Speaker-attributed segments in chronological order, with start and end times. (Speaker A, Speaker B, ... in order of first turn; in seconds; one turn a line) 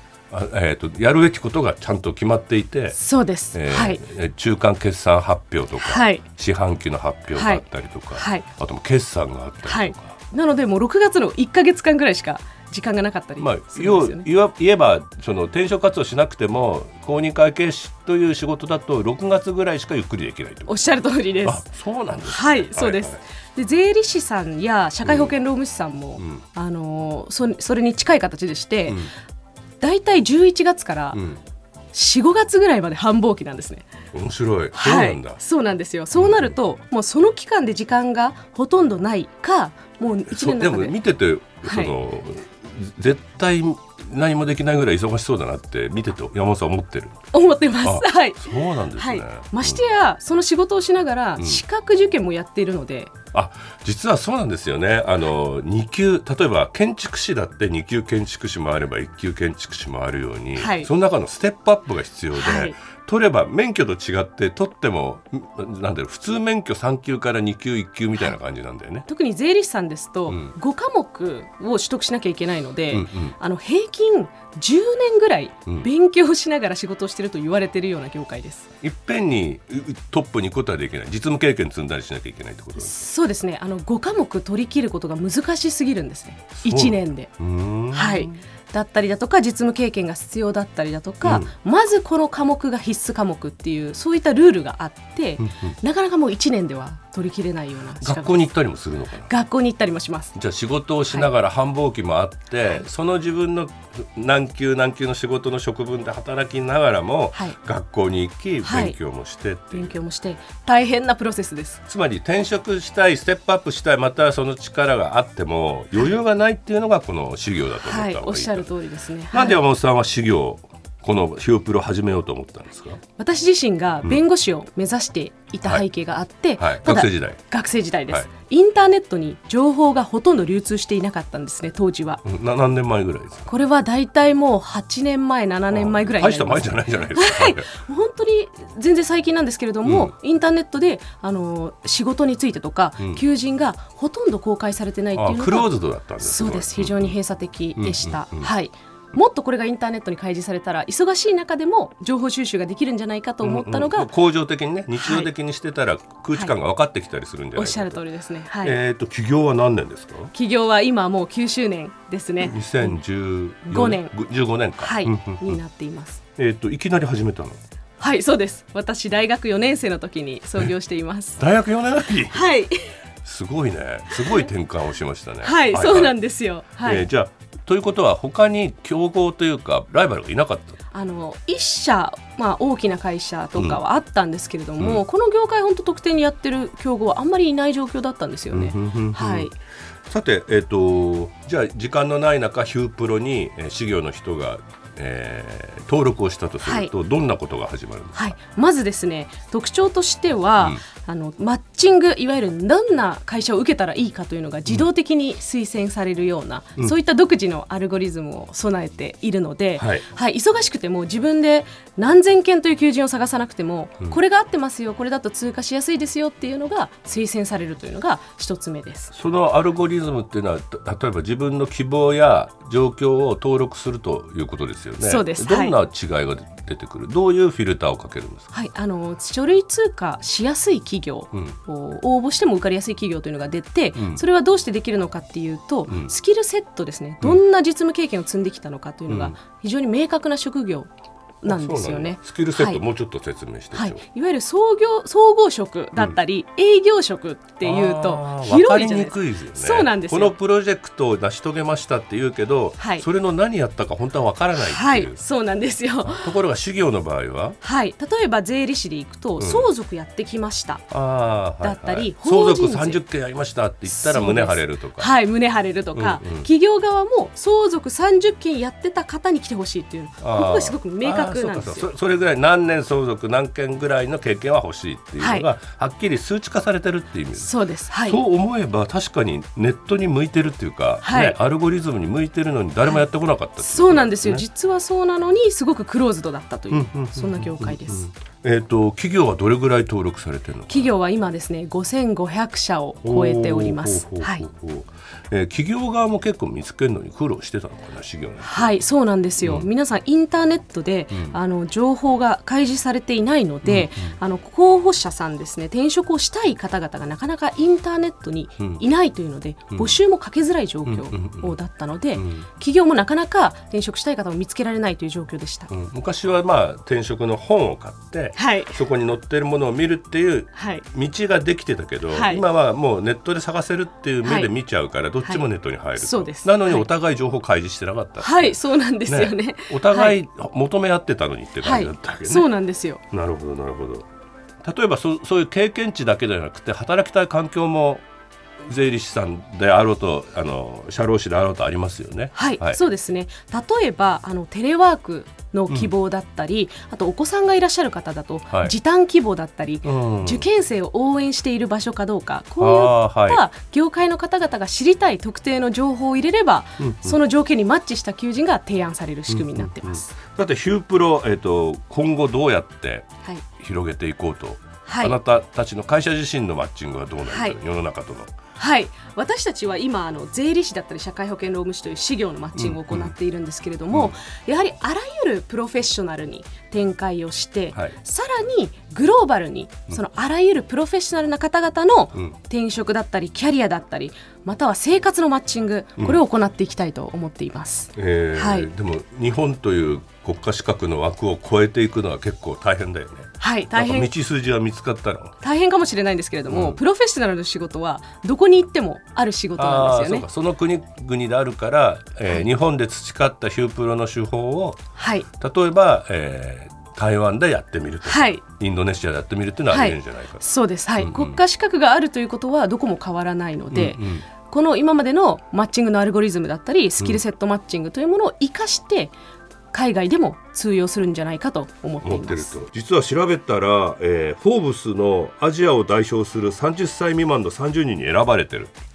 Speaker A: 0.3-3.0
Speaker B: 3.0-4.0
Speaker A: 3.5-10.2
Speaker B: 5.8-6.2
Speaker B: 7.3-8.5
Speaker B: 9.7-14.2
Speaker A: 13.4-20.8
Speaker B: 20.7-21.6
Speaker A: 21.4-23.2
Speaker B: 22.2-29.1
Speaker A: 25.0-25.3
Speaker A: 26.2-26.4
Speaker A: 28.9-29.1
Speaker B: 29.8-31.2
Speaker A: 31.1-31.4
Speaker B: 31.9-33.9
Speaker A: 34.1-35.4
Speaker B: 34.7-41.0
Speaker A: 36.1-36.5
Speaker A: 40.3-47.1
Speaker B: 41.6-41.9
Speaker B: 47.3-53.1
Speaker A: 47.8-49.8
Speaker A: 53.3-69.1
Speaker B: 60.5-60.9
Speaker B: 62.3-62.8
Speaker B: 69.1-78.7
Speaker A: 70.3-70.5
Speaker A: 72.9-73.3
Speaker A: 78.8-83.1
Speaker B: 82.8-87.3
Speaker A: 86.6-88.3
Speaker B: 87.9-98.5
Speaker A: 91.2-91.5
Speaker A: 95.4-95.8
Speaker A: 98.0-99.3
Speaker B: 99.3-100.3
Speaker A: 100.3-110.0
Speaker B: 108.6-109.0
Speaker B: 109.7-111.8
Speaker A: 111.8-118.7
Speaker B: 117.8-119.6
Speaker A: 119.3-123.0
Speaker B: 123.2-132.2
Speaker A: 126.6-127.4
Speaker A: 132.2-133.5
Speaker B: 133.5-154.1
Speaker A: 135.7-137.7
Speaker A: 139.8-140.1
Speaker A: 145.1-147.2
Speaker A: 147.8-148.5
Speaker A: 153.4-158.0
Speaker B: 155.0-155.3
Speaker B: 157.5-158.8
Speaker A: 158.6-160.3
Speaker B: 160.3-163.0
Speaker A: 162.4-165.6
Speaker B: 163.7-164.1
Speaker B: 164.8-166.2
Speaker A: 166.4-167.6
Speaker B: 168.0-171.4
Speaker A: 171.4-172.5
Speaker B: 172.3-172.9
Speaker A: 173.2-176.2
Speaker B: 175.4-177.1
Speaker A: 176.7-180.8
Speaker B: 180.9-189.5
Speaker A: 188.5-189.5
Speaker A: 190.1-198.3
Speaker B: 196.6-196.9
Speaker B: 198.1-219.1
Speaker A: 209.8-210.0
Speaker A: 219.1-228.5
Speaker B: 225.0-225.8
Speaker B: 228.5-240.9
Speaker A: 233.9-234.2
Speaker A: 235.9-236.1
Speaker A: 239.1-239.3
Speaker B: 241.4-242.8
Speaker A: 241.4-244.0
Speaker B: 243.7-250.4
Speaker A: 247.6-255.2
Speaker B: 252.8-253.0
Speaker B: 254.6-256.3
Speaker A: 256.0-257.6
Speaker B: 257.6-260.9
Speaker A: 259.4-259.7
Speaker A: 260.9-265.1
Speaker B: 261.6-263.0
Speaker B: 263.9-271.9
Speaker A: 265.9-266.5
Speaker A: 270.2-284.4
Speaker B: 275.2-275.5
Speaker B: 277.4-278.2
Speaker B: 281.0-281.4
Speaker B: 283.6-288.1
Speaker A: 286.7-290.9
Speaker B: 290.7-294.4
Speaker A: 293.0-298.8
Speaker B: 298.4-315.7
Speaker A: 299.4-299.7
Speaker A: 303.6-304.1
Speaker A: 310.9-311.6
Speaker A: 312.1-312.5
Speaker A: 315.7-332.5
Speaker B: 318.3-318.8
Speaker B: 320.5-320.9
Speaker B: 322.1-322.4
Speaker B: 324.2-324.5
Speaker B: 325.2-326.9
Speaker B: 328.2-330.2
Speaker B: 331.6-333.0
Speaker A: 333.1-334.1
Speaker A: 334.6-338.0
Speaker A: 338.6-342.8
Speaker B: 342.3-360.1
Speaker A: 349.8-350.5
Speaker A: 352.6-353.4
Speaker A: 356.8-357.2
Speaker A: 359.3-368.3
Speaker B: 364.9-365.2
Speaker B: 367.3-367.6
Speaker B: 368.6-388.7
Speaker A: 372.6-373.1
Speaker A: 373.9-374.2
Speaker A: 387.9-395.3
Speaker B: 393.4-394.1
Speaker B: 395.4-400.3
Speaker A: 396.5-396.8
Speaker A: 399.6-404.8
Speaker B: 404.9-405.3
Speaker A: 405.4-411.4
Speaker B: 408.0-408.4
Speaker B: 409.7-419.1
Speaker A: 413.7-414.2
Speaker B: 419.7-422.5
Speaker A: 422.0-428.7